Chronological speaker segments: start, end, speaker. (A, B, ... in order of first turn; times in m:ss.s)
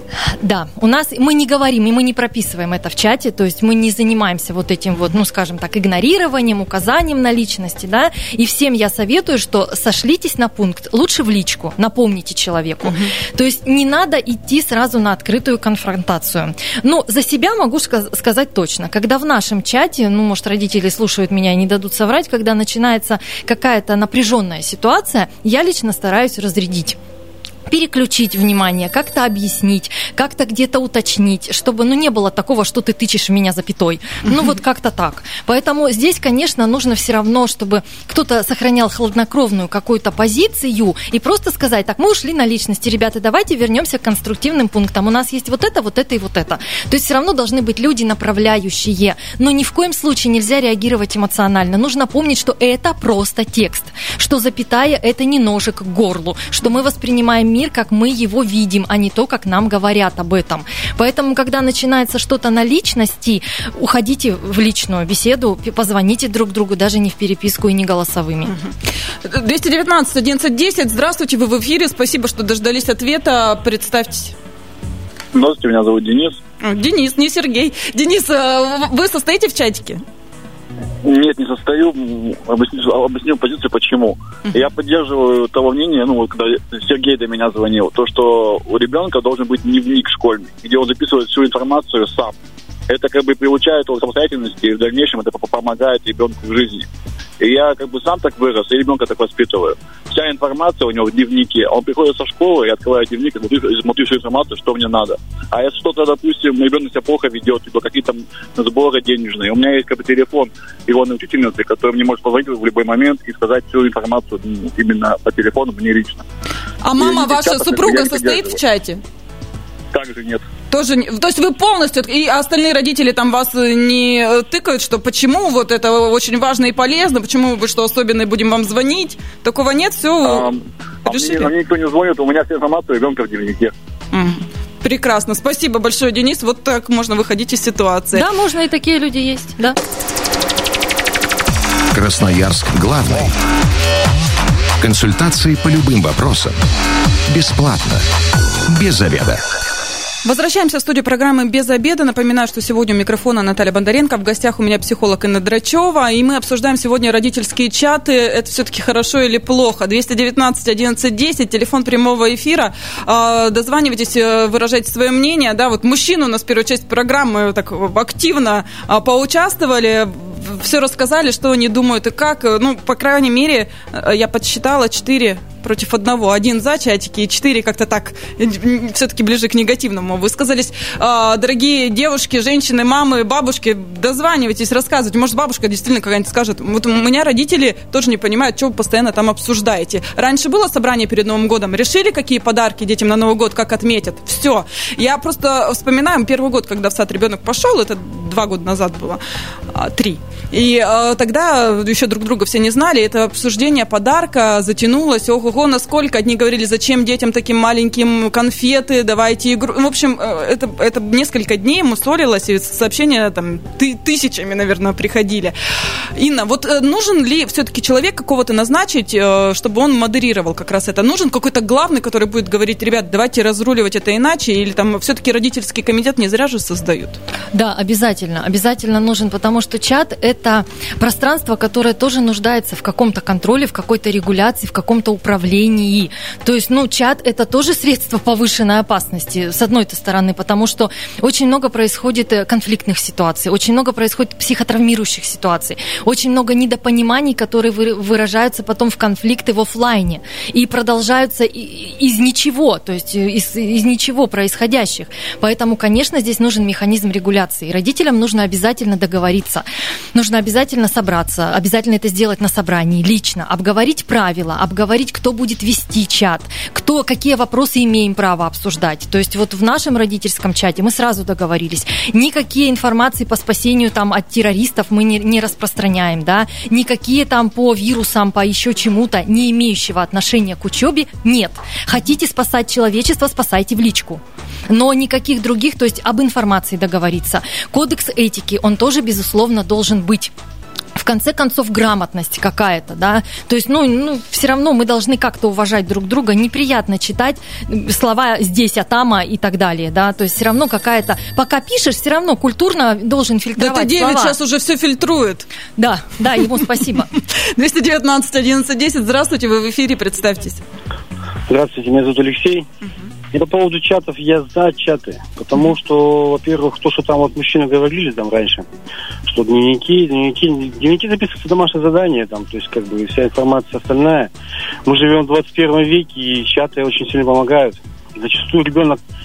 0:00.4-0:27.0 A
0:12.8-0:13.1 B
0:27.7-1:08.6 A
1:09.2-1:14.4 B
1:15.3-1:16.4 C
1:16.6-1:20.0 B
1:21.0-1:32.3 C
1:32.9-1:36.9 C
1:37.4-1:56.2 C
1:56.8-1:59.0 B
1:57.0-1:58.6 C
1:59.9-2:00.4 C
2:00.7-2:10.5 B
2:10.2-2:13.7 C
2:11.0-2:11.5 B
2:14.1-2:18.2 B
2:18.1-2:19.8 A
2:21.9-2:23.3 D
2:24.8-2:26.6 D
2:27.3-2:28.0 D
2:28.7-2:29.4 D
2:30.2-3:35.6 B
3:36.2-3:47.2 B
3:47.5-4:50.3 A
4:51.0-5:04.4 A
5:03.6-5:05.5 B
5:05.8-5:07.1 A
5:07.5-5:10.6 B
5:11.5-5:12.7 E
5:13.3-5:18.7 E
5:19.3-5:24.3 E
5:24.9-5:29.0 E